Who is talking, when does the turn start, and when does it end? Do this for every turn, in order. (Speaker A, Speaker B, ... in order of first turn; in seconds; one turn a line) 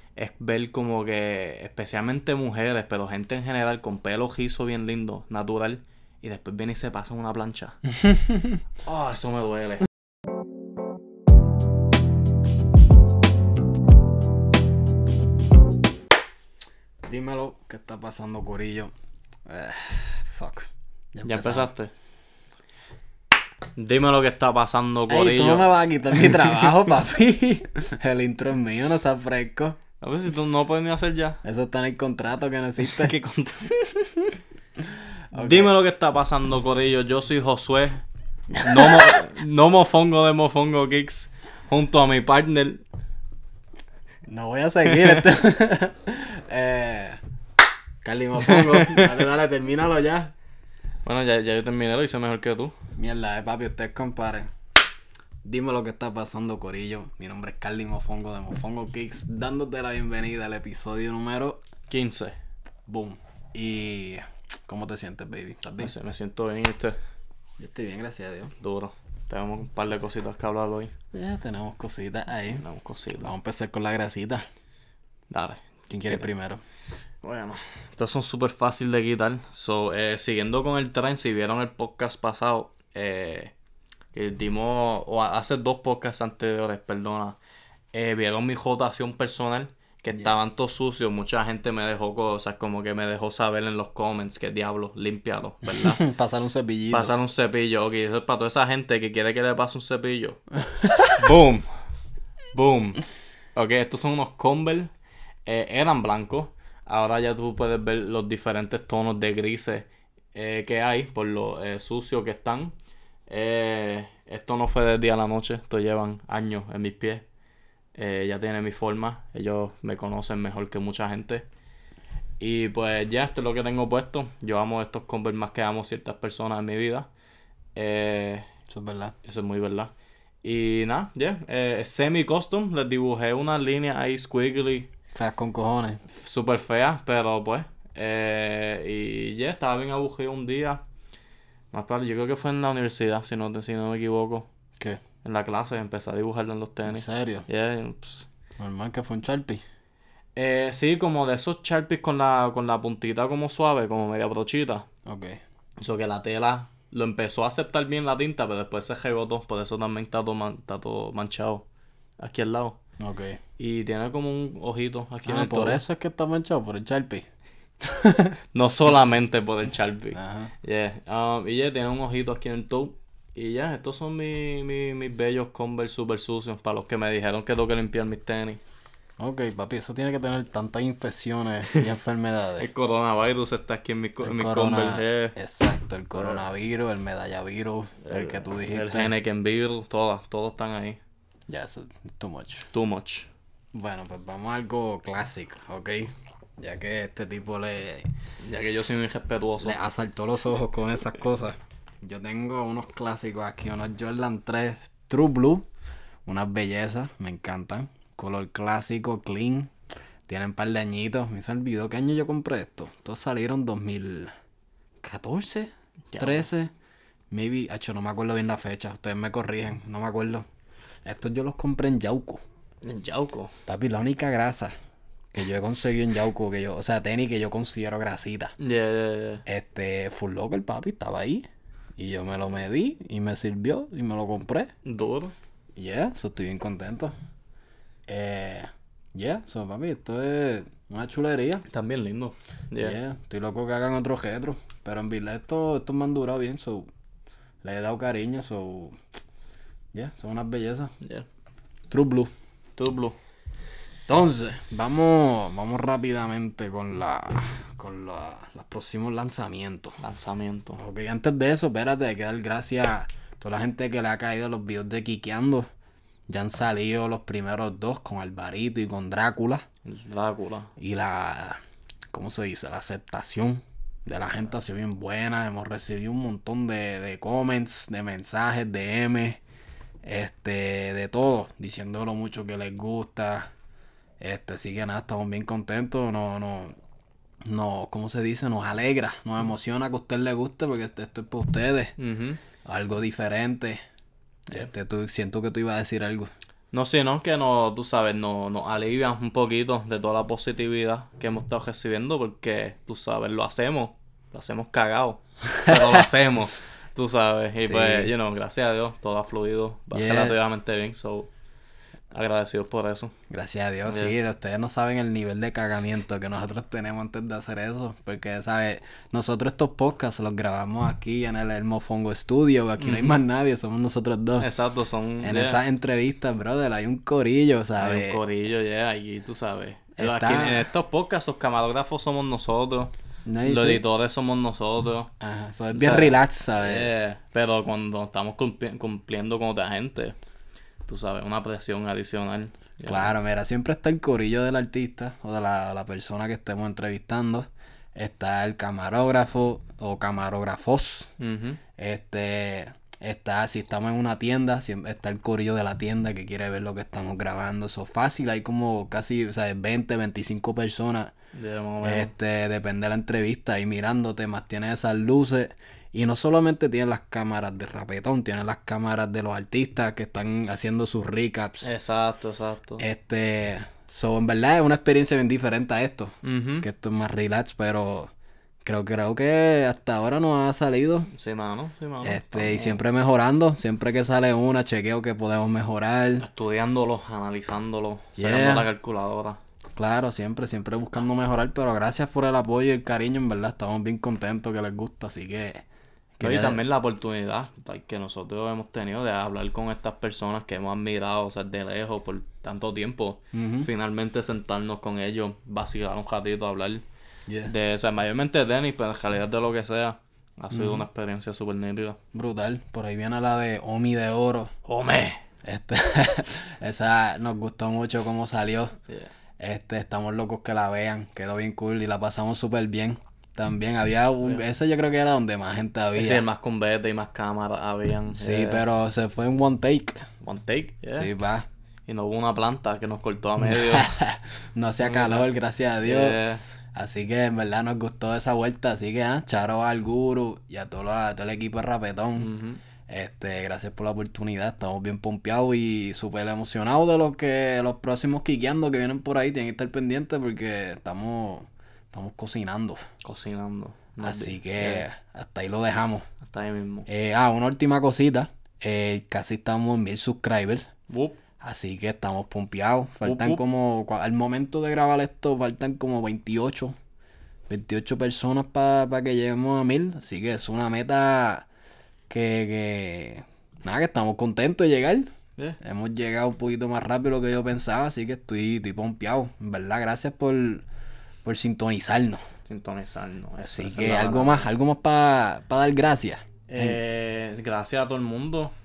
Speaker A: 0.2-7.8
Speaker A: 8.8-9.8
Speaker B: 17.1-18.9
Speaker B: 19.5-21.7
Speaker A: 21.2-21.9
Speaker A: 23.8-25.7
Speaker B: 25.1-29.8
Speaker A: 30.0-31.4
Speaker B: 31.4-33.1
Speaker A: 32.8-33.7
Speaker B: 33.7-35.7
Speaker A: 35.3-38.0
Speaker B: 38.6-39.1
Speaker A: 38.6-42.8
Speaker B: 44.3-47.2
Speaker A: 44.9-45.2
Speaker B: 48.0-50.3
Speaker A: 48.4-49.1
Speaker A: 51.0-52.8
Speaker B: 53.0-54.5
Speaker B: 55.4-61.6
Speaker A: 61.9-62.4
Speaker B: 62.9-65.9
Speaker A: 65.8-67.0
Speaker B: 67.6-68.5
Speaker A: 68.6-70.9
Speaker B: 71.1-72.6
Speaker A: 72.6-73.3
Speaker B: 73.2-74.4
Speaker A: 75.3-76.3
Speaker B: 75.9-76.6
Speaker A: 77.2-83.5
Speaker A: 84.1-87.4
Speaker A: 87.9-96.0
Speaker B: 95.7-97.1
Speaker A: 96.9-100.4
Speaker B: 100.7-101.2
Speaker A: 101.1-101.7
Speaker A: 102.5-103.0
Speaker A: 103.5-104.9
Speaker A: 105.5-112.7
Speaker A: 113.3-117.2
Speaker A: 118.0-121.5
Speaker A: 122.4-127.1
Speaker A: 127.8-128.5
Speaker B: 128.7-129.2
Speaker A: 129.2-129.9
Speaker A: 130.4-134.9
Speaker B: 135.1-136.0
Speaker A: 136.1-140.8
Speaker A: 141.7-144.5
Speaker A: 145.2-148.3
Speaker B: 146.9-147.5
Speaker B: 148.6-149.6
Speaker A: 150.4-154.9
Speaker B: 155.1-155.4
Speaker A: 155.8-161.7
Speaker A: 162.2-162.8
Speaker B: 163.0-163.4
Speaker A: 163.6-165.8
Speaker B: 165.2-167.2
Speaker B: 167.8-168.4
Speaker A: 168.5-178.6
Speaker B: 170.2-170.5
Speaker B: 179.2-182.7
Speaker A: 182.6-185.4
Speaker B: 184.2-189.1
Speaker A: 188.0-191.0
Speaker B: 191.5-192.7
Speaker A: 192.7-193.3
Speaker B: 193.7-198.1
Speaker A: 198.4-199.8
Speaker B: 199.6-205.7
Speaker B: 206.3-209.7
Speaker B: 210.3-214.3
Speaker B: 215.0-216.7
Speaker A: 216.1-216.5
Speaker B: 217.3-220.4
Speaker B: 221.1-222.4
Speaker A: 222.8-223.5
Speaker B: 223.7-224.7
Speaker B: 225.3-228.5
Speaker A: 228.6-229.4
Speaker B: 229.5-234.7
Speaker A: 234.8-235.3
Speaker B: 235.8-237.1
Speaker B: 238.1-241.7
Speaker A: 241.7-243.0
Speaker B: 242.8-246.9
Speaker B: 247.6-249.0
Speaker B: 249.9-250.9
Speaker B: 251.9-252.3
Speaker A: 252.8-253.2
Speaker B: 254.1-260.0
Speaker A: 260.0-260.8
Speaker B: 260.8-265.7
Speaker B: 266.3-269.7
Speaker A: 269.9-270.7
Speaker B: 270.8-279.4
Speaker B: 280.0-283.5
Speaker B: 284.2-286.8
Speaker B: 287.4-291.9
Speaker A: 292.0-292.4
Speaker B: 292.6-293.8
Speaker B: 294.5-296.3
Speaker A: 296.7-311.3
Speaker B: 305.7-306.0
Speaker B: 307.6-308.1
Speaker B: 309.9-310.4
Speaker A: 312.1-313.1
Speaker B: 313.3-324.5
Speaker A: 313.9-314.1
Speaker A: 322.8-323.2
Speaker A: 324.4-325.6
Speaker B: 325.2-328.2
Speaker A: 327.8-332.9
Speaker B: 330.0-330.7
Speaker B: 333.3-333.8
Speaker A: 333.4-335.1
Speaker B: 335.2-336.9
Speaker A: 335.7-340.2
Speaker A: 340.9-343.1
Speaker B: 342.9-351.1
Speaker A: 351.2-351.6
Speaker B: 351.8-361.1
Speaker A: 361.3-362.1
Speaker B: 361.8-371.7
Speaker A: 371.6-372.9
Speaker B: 372.8-378.1
Speaker A: 376.2-376.7
Speaker B: 378.6-381.1
Speaker A: 381.1-382.8
Speaker B: 382.0-386.3
Speaker A: 386.2-389.4
Speaker B: 388.2-388.7
Speaker B: 389.8-395.6
Speaker B: 396.2-396.6
Speaker A: 396.2-406.8
Speaker B: 403.3-403.7
Speaker B: 407.3-407.5
Speaker A: 407.4-412.0
Speaker B: 410.5-410.9
Speaker B: 412.1-414.5
Speaker A: 414.7-415.2
Speaker B: 415.4-418.8
Speaker B: 419.4-426.2
Speaker A: 426.0-428.6
Speaker B: 428.1-430.1
Speaker A: 430.2-431.1
Speaker B: 430.9-431.5
Speaker A: 431.9-433.9
Speaker B: 433.4-436.2
Speaker A: 434.8-435.3
Speaker A: 435.8-436.4
Speaker B: 436.7-442.3
Speaker A: 442.2-442.6
Speaker B: 442.9-452.9
Speaker A: 453.0-454.9
Speaker B: 454.0-456.1
Speaker A: 456.2-456.9
Speaker B: 456.9-460.7
Speaker A: 460.9-461.2
Speaker B: 461.4-466.8
Speaker A: 463.0-463.4
Speaker B: 467.5-471.5
Speaker B: 472.1-480.7
Speaker B: 481.2-482.2
Speaker A: 482.5-484.5
Speaker B: 483.4-486.8
Speaker A: 486.5-488.5